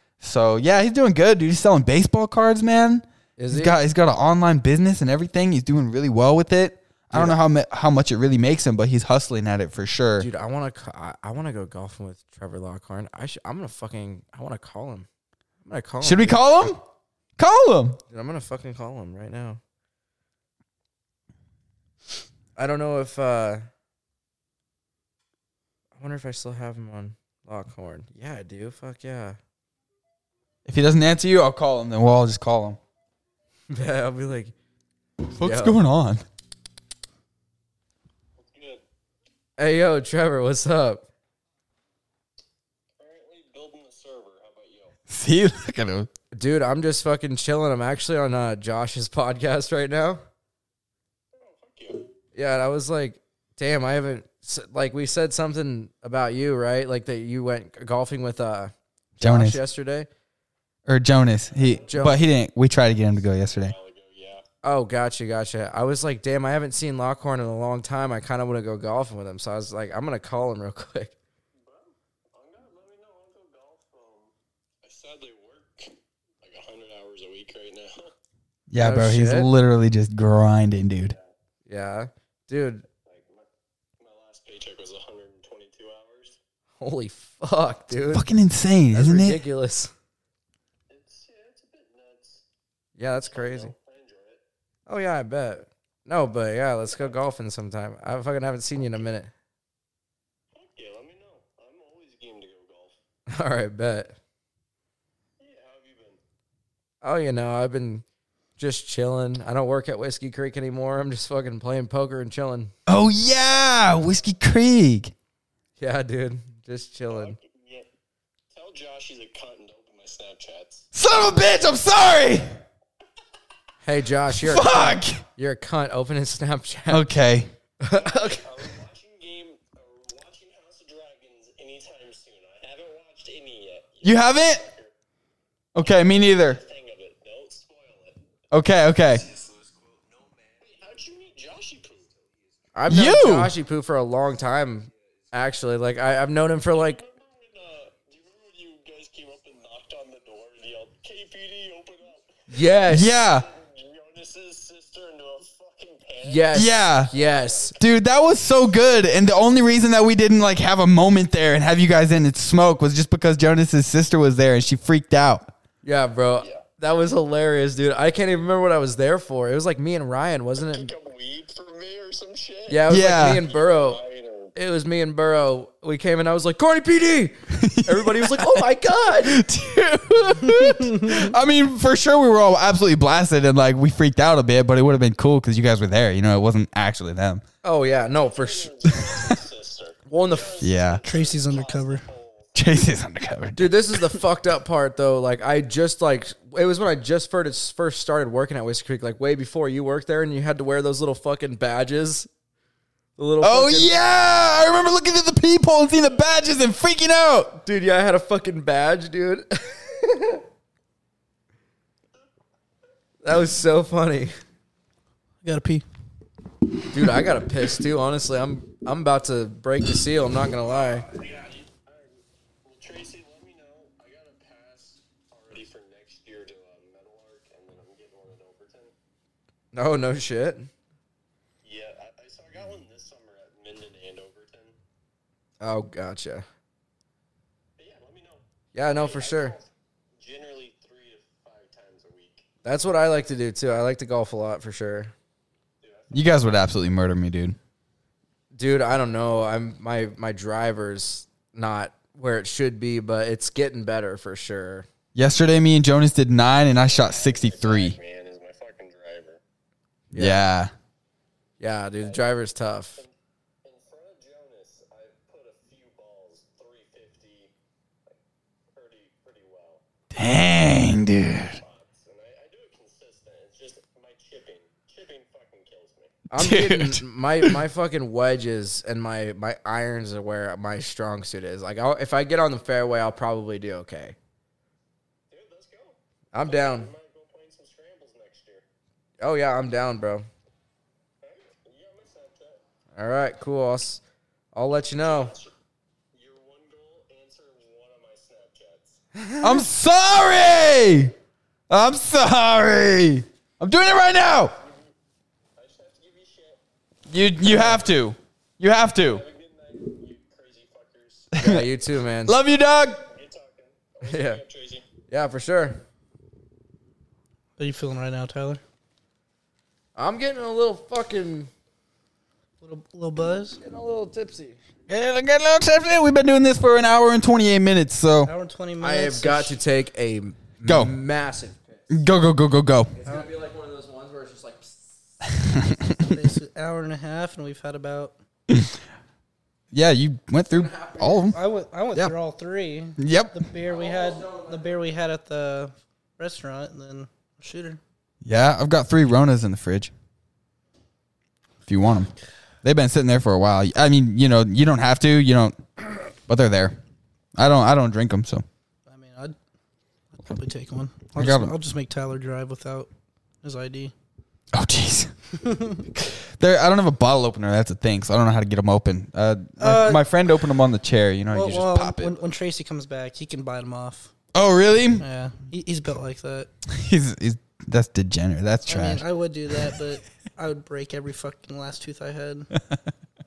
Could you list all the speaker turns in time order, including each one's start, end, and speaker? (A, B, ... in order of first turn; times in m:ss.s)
0:00.2-0:10.3 A
0:03.4-0:03.8 B
0:07.1-0:07.4 B
0:10.2-0:15.1 B
0:15.6-0:16.7 B
0:16.0-0:16.8 A
0:17.4-0:18.0 A
0:18.1-0:19.6 B
0:22.6-0:23.6 B
0:26.0-0:29.4 B
0:30.7-0:32.8 A
0:33.7-0:34.5 B
0:35.4-0:36.2 A
0:35.4-0:35.8 B
0:38.4-0:38.8 C
0:39.6-0:41.0 B
0:43.0-0:45.0 C
0:45.1-0:46.1 A
0:46.3-0:50.2 B
0:51.3-0:52.1 C
0:52.3-1:00.1 B
0:59.2-0:59.6 A
1:00.9-1:03.8 A
1:01.5-1:02.2 C
1:01.9-1:02.2 B
1:02.9-1:04.4 C
1:04.6-1:11.1 B
1:11.6-1:18.1 C
1:18.7-1:21.2 A
1:18.8-1:19.5 B
1:21.1-1:21.3 C
1:21.7-1:22.9 B
1:23.0-1:23.5 C
1:24.0-1:26.4 C
1:26.8-1:28.2 B
1:28.1-1:29.4 A
1:28.9-1:29.9 B
1:30.9-1:32.4 C
1:33.0-1:33.7 B
1:33.2-1:34.4 C
1:34.9-1:39.3 B
1:40.5-1:43.0 C
1:43.3-1:44.2 B
1:45.4-1:46.2 C
1:47.0-1:48.0 B
1:48.6-1:52.7 B
1:52.9-1:55.1 A
1:55.8-1:57.4 B
1:57.1-1:57.9 C
1:58.5-2:00.9 C
2:00.9-2:02.5 A
2:03.8-2:07.1 B
2:04.3-2:05.2 A
2:06.9-2:07.5 A
2:07.8-2:08.7 B
2:07.9-2:14.9 C
2:14.0-2:14.6 A
2:15.8-2:16.6 A
2:15.8-2:18.2 C
2:18.5-2:19.3 A
2:20.6-2:22.1 C
2:22.8-2:27.0 B
2:22.9-2:23.5 A
2:26.8-2:37.8 C
2:32.5-2:33.1 B
2:32.9-2:33.5 A
2:36.2-2:37.8 B
2:36.5-2:37.1 A
2:37.8-2:45.5 A
2:45.8-2:50.9 B
2:50.6-2:54.5 C
2:52.7-2:54.0 B
2:52.9-2:53.4 A
2:54.6-2:59.4 B
2:57.5-2:58.7 A
2:59.2-3:07.4 A
3:00.5-3:01.3 D
3:07.6-3:09.1 B
3:08.2-3:12.6 C
3:09.1-3:09.3 A
3:10.1-3:10.6 B
3:10.6-3:11.0 A
3:11.0-3:12.0 D
3:12.6-3:14.0 A
3:13.6-3:22.3 B
3:23.2-3:24.0 B
3:23.4-3:27.6 A
3:27.6-3:30.4 B
3:33.2-3:34.3 B
3:35.4-3:35.9 D
3:36.9-3:41.1 B
3:41.1-3:49.0 C
3:49.7-3:50.7 B
3:51.6-3:54.8 C
3:55.6-3:56.4 B
3:57.8-4:02.5 C
3:58.7-3:59.6 B
4:02.6-4:05.1 B
4:05.8-4:06.7 C
4:06.1-4:07.6 A
4:08.6-4:14.9 B
4:15.2-4:18.0 A
4:16.8-4:19.4 C
4:20.1-4:20.4 B
4:20.2-4:20.7 A
4:21.6-4:23.0 B
4:22.0-4:22.2 C
4:23.0-4:27.5 C
4:28.7-4:29.8 C
4:30.1-4:31.6 A
4:31.5-4:36.2 C
4:36.3-4:37.6 A
4:36.3-4:44.2 B
4:45.3-4:48.7 C
4:46.3-4:46.9 B
4:49.2-4:50.3 B
4:51.2-4:52.6 C
4:53.0-4:54.0 B
4:54.5-4:55.3 B
4:55.0-4:55.5 C
4:56.1-4:59.0 C
4:59.2-4:59.6 B
4:59.4-5:01.1 A
5:01.7-5:04.6 A
5:05.6-5:06.6 C
5:07.1-5:09.2 A
5:07.4-5:07.8 B
5:09.0-5:11.6 C
5:11.3-5:11.6 A
5:11.4-5:12.4 B
5:12.2-5:13.0 A
5:13.1-5:14.8 C
5:14.0-5:14.4 B
5:15.1-5:15.8 B
5:17.6-5:18.6 D
5:20.0-5:21.5 B
5:22.6-5:23.6 D
5:23.6-5:24.6 B
5:24.9-5:28.3 A
5:28.2-5:29.6 D
5:28.8-5:32.0 B
5:30.7-5:30.9 A
5:31.9-5:32.9 A
5:33.0-5:34.9 B
5:35.3-5:36.2 A
5:35.8-5:38.1 D
5:38.5-5:38.8 A
5:39.7-5:41.4 A
5:40.5-5:41.3 B
5:41.3-5:47.8 D
5:43.0-5:43.4 A
5:43.7-5:44.6 B
5:48.2-5:49.9 A
5:51.7-5:52.1 A
5:52.6-5:56.8 A
5:57.4-5:58.4 A
5:58.9-5:59.4 D
6:00.2-6:02.9 D
6:01.2-6:01.5 A
6:03.4-6:03.9 D
6:04.5-6:05.1 A
6:05.4-6:05.9 D
6:05.9-6:12.1 A
6:09.6-6:10.1 D
6:11.3-6:14.1 D
6:14.3-6:15.0 A
6:15.0-6:16.5 D
6:16.7-6:19.6 A
6:18.7-6:22.5 D